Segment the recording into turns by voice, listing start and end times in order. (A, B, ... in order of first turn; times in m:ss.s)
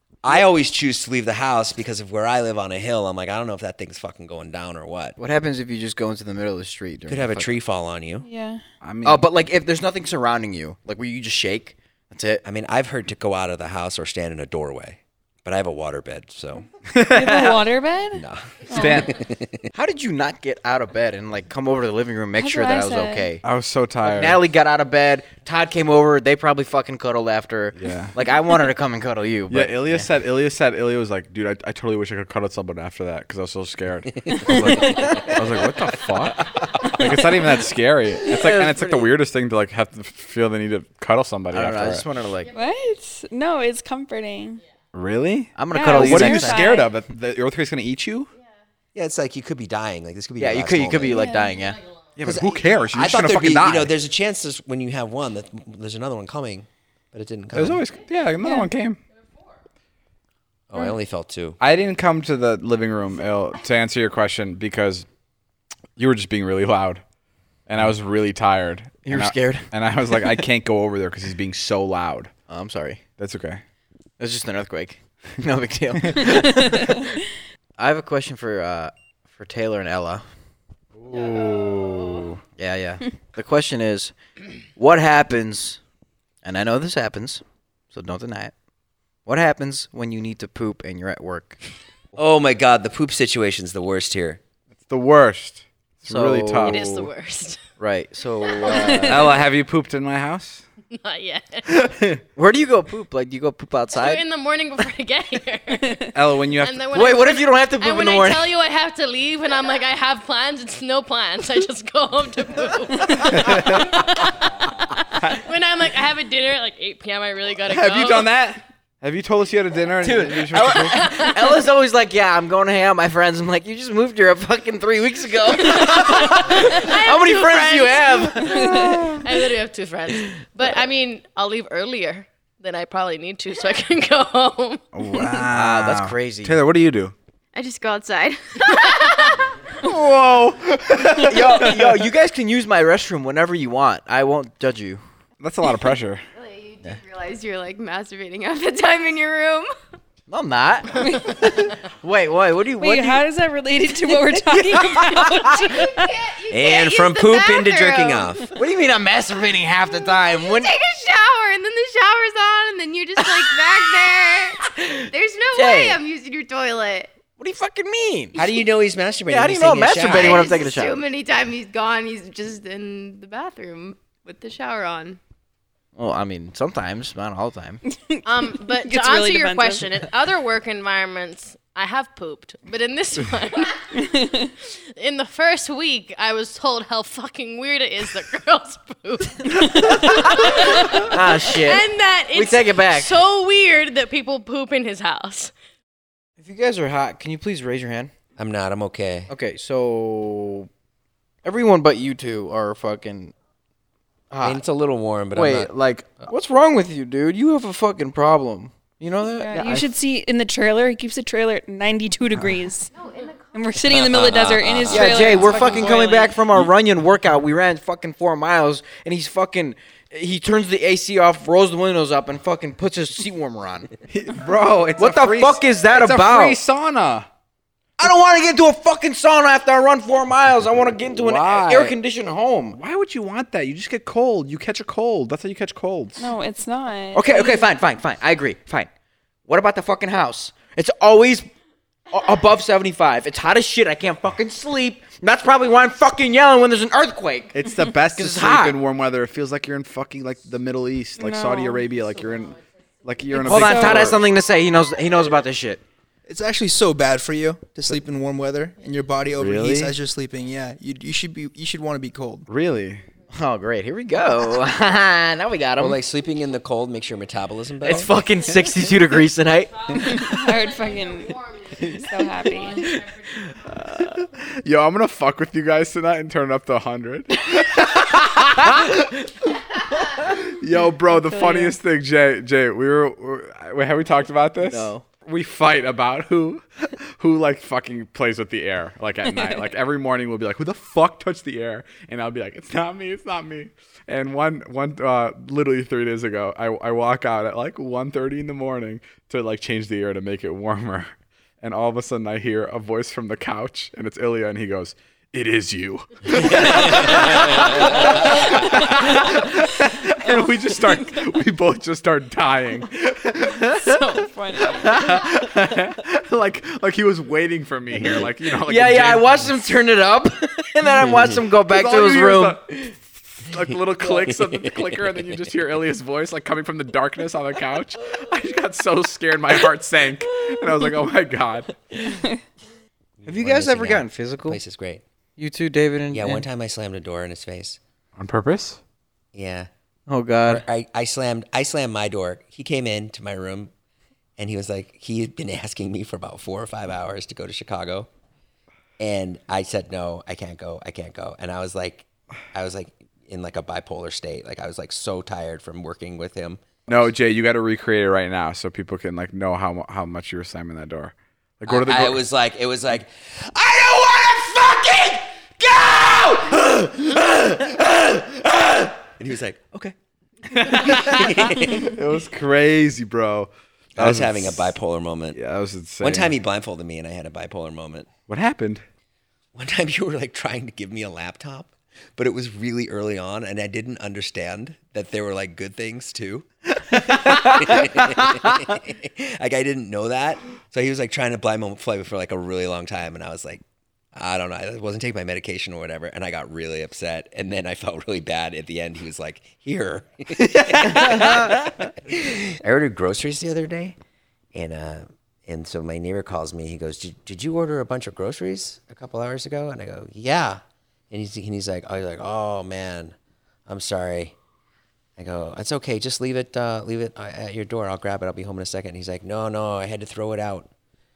0:00.2-0:05.2 A
0:05.2-0:07.5 B
0:07.1-0:08.2 A
0:08.2-0:08.6 C
0:08.8-0:09.2 D
0:09.0-0:12.4 B
0:12.4-0:16.7 A
0:16.9-0:17.6 D
0:17.1-0:19.1 C
0:18.1-0:19.7 A
0:18.7-0:19.2 D
0:19.7-0:23.4 B
0:22.4-0:23.3 C
0:23.4-0:24.4 D
0:24.0-0:30.1 B
0:27.8-0:28.1 D
0:29.5-0:42.1 D
0:34.3-0:35.2 C
0:34.3-0:35.4 A
0:38.2-0:39.1 B
0:41.5-0:42.5 B
0:42.5-0:44.6 C
0:44.9-0:48.3 D
0:45.6-0:46.7 B
0:45.7-0:47.0 C
0:49.0-0:51.3 A
0:50.4-0:51.8 B
0:51.0-0:51.6 C
0:52.2-0:53.9 D
0:52.2-0:57.8 A
0:57.5-0:59.0 D
0:58.4-0:58.7 C
1:00.7-1:01.6 A
1:01.6-1:05.1 D
1:06.0-1:07.0 D
1:07.7-1:12.3 D
1:09.0-1:09.7 B
1:12.5-1:13.0 B
1:13.2-1:13.6 D
1:14.2-1:17.0 B
1:16.0-1:16.4 D
1:17.8-1:20.2 B
1:21.0-1:22.4 D
1:21.1-1:22.3 E
1:22.6-1:24.1 B
1:24.8-1:25.8 B
1:26.4-1:28.5 B
1:29.3-1:31.6 B
1:32.2-1:34.4 A
1:34.9-1:37.1 D
1:36.1-1:36.9 B
1:36.7-1:37.6 F
1:37.8-1:39.4 B
1:38.7-1:39.3 C
1:39.0-1:40.7 D
1:40.9-1:41.7 F
1:41.7-1:42.2 D
1:42.4-1:44.2 B
1:43.9-1:58.3 F
1:46.1-1:46.8 D
1:46.9-1:48.5 B
1:53.3-1:53.9 D
1:57.7-2:01.0 D
2:00.0-2:08.9 B
2:00.6-2:01.6 F
2:05.7-2:14.8 F
2:08.4-2:09.2 C
2:14.9-2:17.1 D
2:15.5-2:16.6 B
2:17.5-2:19.1 E
2:18.7-2:19.4 F
2:19.8-2:22.0 D
2:21.1-2:25.0 B
2:25.4-2:26.2 D
2:26.4-2:29.7 E
2:30.3-2:33.2 B
2:31.0-2:31.5 C
2:32.8-2:36.2 C
2:34.4-2:35.5 B
2:35.9-2:38.3 E
2:36.5-2:38.5 A
2:38.6-2:40.7 B
2:40.4-2:47.1 E
2:43.2-2:43.5 B
2:44.7-2:46.0 B
2:47.4-2:48.4 B
2:48.4-2:50.6 A
2:49.3-2:51.0 B
2:50.1-2:55.2 E
2:56.0-2:57.8 B
2:58.1-3:00.0 C
2:58.2-3:03.8 F
3:04.0-3:04.5 C
3:05.0-3:15.5 F
3:09.9-3:10.3 C
3:11.0-3:13.2 B
3:16.4-3:18.1 B
3:18.4-3:19.3 A
3:19.3-3:20.7 B
3:21.4-3:23.3 B
3:24.3-3:24.6 B
3:24.4-3:25.7 A
3:25.4-3:25.7 B
3:25.4-3:26.0 D
3:26.3-3:29.9 B
3:29.4-3:32.9 C
3:32.9-3:33.6 E
3:33.5-3:36.4 C
3:33.9-3:35.4 A
3:34.9-3:43.9 B
3:44.1-3:47.3 D
3:45.0-3:46.6 B
3:48.0-3:52.8 B
3:51.2-3:52.0 D
3:52.8-3:56.3 D
3:56.2-3:57.4 C
3:57.1-3:58.9 B
3:59.5-4:01.5 B
4:02.1-4:07.6 B
4:07.6-4:14.2 D
4:08.1-4:08.8 B
4:11.2-4:11.9 C
4:13.3-4:14.2 C
4:13.4-4:15.8 B
4:16.3-4:22.5 G
4:19.4-4:19.9 D
4:22.5-4:23.0 D
4:23.3-4:26.0 B
4:25.8-4:28.1 A
4:27.8-4:30.4 B
4:30.1-4:33.0 C
4:31.0-4:33.0 E
4:33.7-4:39.1 D
4:40.2-5:14.0 D
4:41.1-4:41.8 C
4:44.6-4:45.0 B
5:06.3-5:08.0 A
5:13.9-5:15.2 C
5:14.6-5:19.5 D
5:18.6-5:22.9 B
5:21.5-5:31.8 D
5:24.4-5:25.4 A
5:33.2-5:35.0 A
5:33.3-5:34.6 B
5:35.4-5:36.4 B
5:36.1-5:37.8 A
5:38.2-5:38.8 D
5:39.3-5:39.7 A
5:40.1-5:40.6 B
5:40.4-5:43.7 A
5:44.4-5:48.1 A
5:49.0-5:56.6 A
5:56.9-6:02.2 D
6:01.7-6:10.0 A
6:10.5-6:14.8 D
6:10.5-6:12.0 A
6:14.0-6:15.4 A
6:15.3-6:16.3 D
6:16.0-6:18.1 A
6:18.3-6:18.8 D
6:19.5-6:33.6 A
6:34.1-6:44.0 A
6:40.4-6:41.9 D
6:44.5-6:53.2 A
6:53.7-6:54.4 A
6:55.2-7:00.7 A